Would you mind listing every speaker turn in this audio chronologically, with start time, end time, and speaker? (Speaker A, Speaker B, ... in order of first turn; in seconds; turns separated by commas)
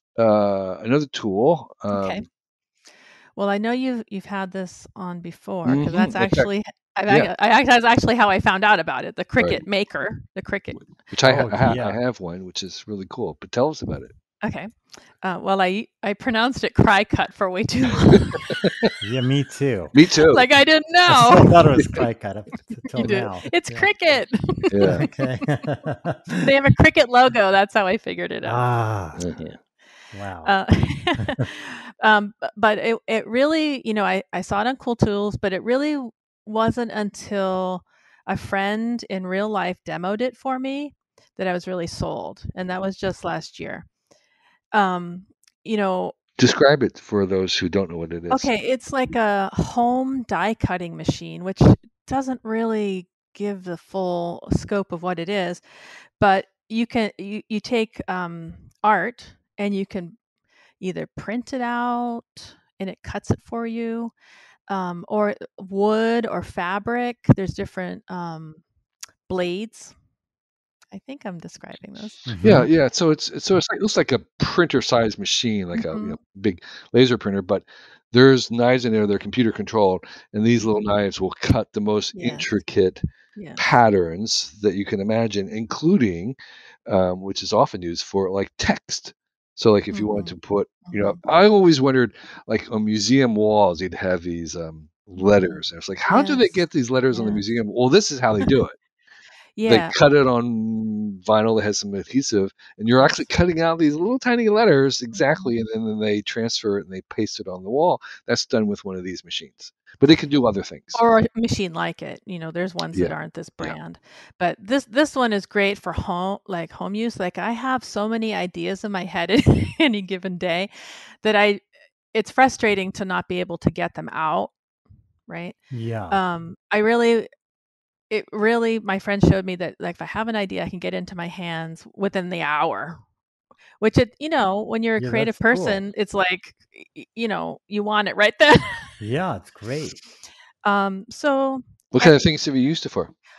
Speaker A: 0.1-2.2, Speaker B: 1.9-2.2, Speaker B: 3.4-10.9, Speaker A: 5.7-6.5, Speaker A: 11.1-14.1, Speaker C: 11.3-12.0, Speaker B: 14.4-14.7, Speaker B: 15.2-18.7, Speaker C: 19.0-19.9, Speaker A: 19.9-20.5, Speaker B: 20.3-21.6, Speaker C: 21.1-23.9, Speaker B: 23.0-25.2, Speaker A: 24.7-25.0, Speaker C: 24.9-26.5, Speaker B: 26.4-28.7, Speaker C: 28.4-29.2, Speaker A: 29.2-29.6, Speaker B: 29.2-29.5, Speaker C: 30.1-30.6, Speaker B: 30.4-43.9, Speaker B: 44.7-46.2, Speaker A: 46.4-48.5, Speaker B: 48.3-55.6, Speaker B: 56.2-60.2, Speaker B: 60.8-64.1, Speaker B: 64.7-68.6, Speaker B: 69.3-69.9, Speaker B: 70.9-72.3, Speaker C: 72.3-72.7, Speaker A: 72.4-83.0, Speaker B: 75.8-76.2, Speaker B: 82.2-82.5, Speaker B: 83.4-83.6, Speaker A: 83.6-98.8, Speaker B: 89.9-90.4, Speaker B: 90.9-91.2, Speaker B: 95.2-96.6, Speaker B: 97.1-97.4, Speaker B: 99.6-100.0, Speaker A: 99.7-111.0, Speaker B: 103.0-103.3, Speaker B: 105.2-105.6, Speaker B: 111.0-120.7, Speaker A: 112.9-113.8, Speaker B: 121.2-124.5, Speaker B: 125.3-125.6, Speaker C: 125.7-126.2, Speaker B: 126.1-127.3, Speaker B: 128.1-133.0, Speaker B: 133.8-139.0, Speaker C: 135.0-135.8, Speaker C: 139.0-140.0, Speaker B: 140.7-142.2, Speaker A: 141.9-143.1